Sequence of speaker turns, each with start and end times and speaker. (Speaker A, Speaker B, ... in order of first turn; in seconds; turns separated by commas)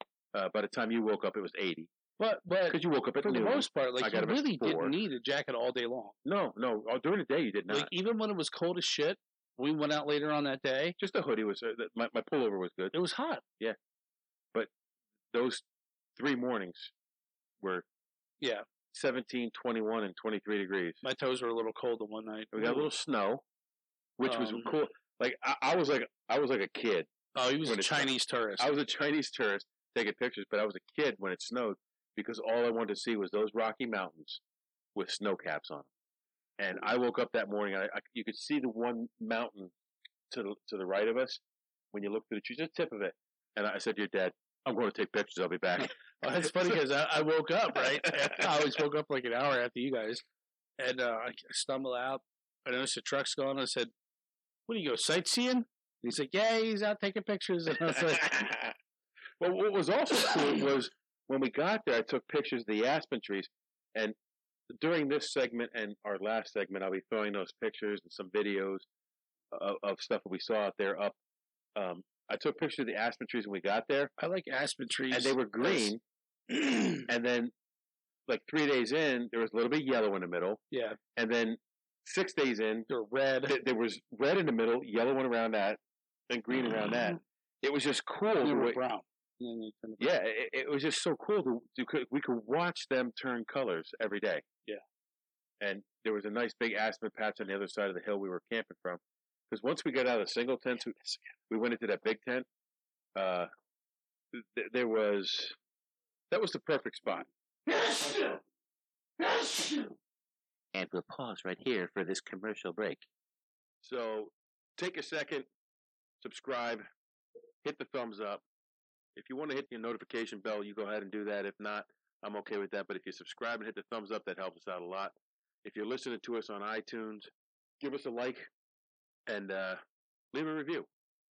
Speaker A: 0.3-1.9, Speaker B: 2.2-6.1, Speaker A: 2.7-5.0, Speaker A: 6.2-7.9, Speaker B: 7.7-11.0, Speaker A: 11.0-12.9, Speaker B: 12.9-13.4, Speaker A: 15.3-15.6, Speaker A: 16.1-16.9, Speaker A: 17.6-17.9, Speaker A: 18.9-21.0, Speaker B: 21.0-22.9, Speaker A: 22.5-23.4, Speaker A: 24.2-27.1, Speaker B: 24.3-24.7, Speaker B: 27.4-28.7, Speaker A: 27.6-34.4, Speaker A: 35.0-35.9, Speaker A: 36.6-39.7, Speaker A: 40.3-41.4, Speaker A: 41.9-45.9, Speaker B: 45.8-50.2, Speaker B: 50.8-53.9, Speaker B: 54.7-58.5, Speaker A: 57.9-58.8, Speaker A: 59.4-64.2, Speaker A: 64.7-68.9, Speaker A: 69.5-71.2, Speaker A: 71.8-74.1, Speaker B: 74.2-75.9, Speaker A: 75.1-76.0, Speaker B: 76.5-77.1, Speaker A: 77.1-77.5, Speaker A: 78.3-80.6, Speaker B: 80.7-81.0, Speaker A: 81.2-82.9, Speaker B: 82.9-83.5, Speaker A: 83.5-88.8, Speaker B: 88.4-90.1, Speaker A: 90.0-94.4, Speaker A: 95.6-101.0, Speaker A: 101.5-102.5, Speaker A: 103.1-103.5, Speaker A: 104.3-105.6, Speaker A: 106.3-107.3, Speaker B: 107.7-108.4, Speaker B: 109.2-110.0, Speaker C: 110.7-113.0, Speaker A: 113.8-115.5, Speaker A: 116.2-116.8, Speaker A: 117.6-118.4, Speaker A: 119.1-128.5, Speaker A: 129.3-129.8, Speaker A: 130.3-130.9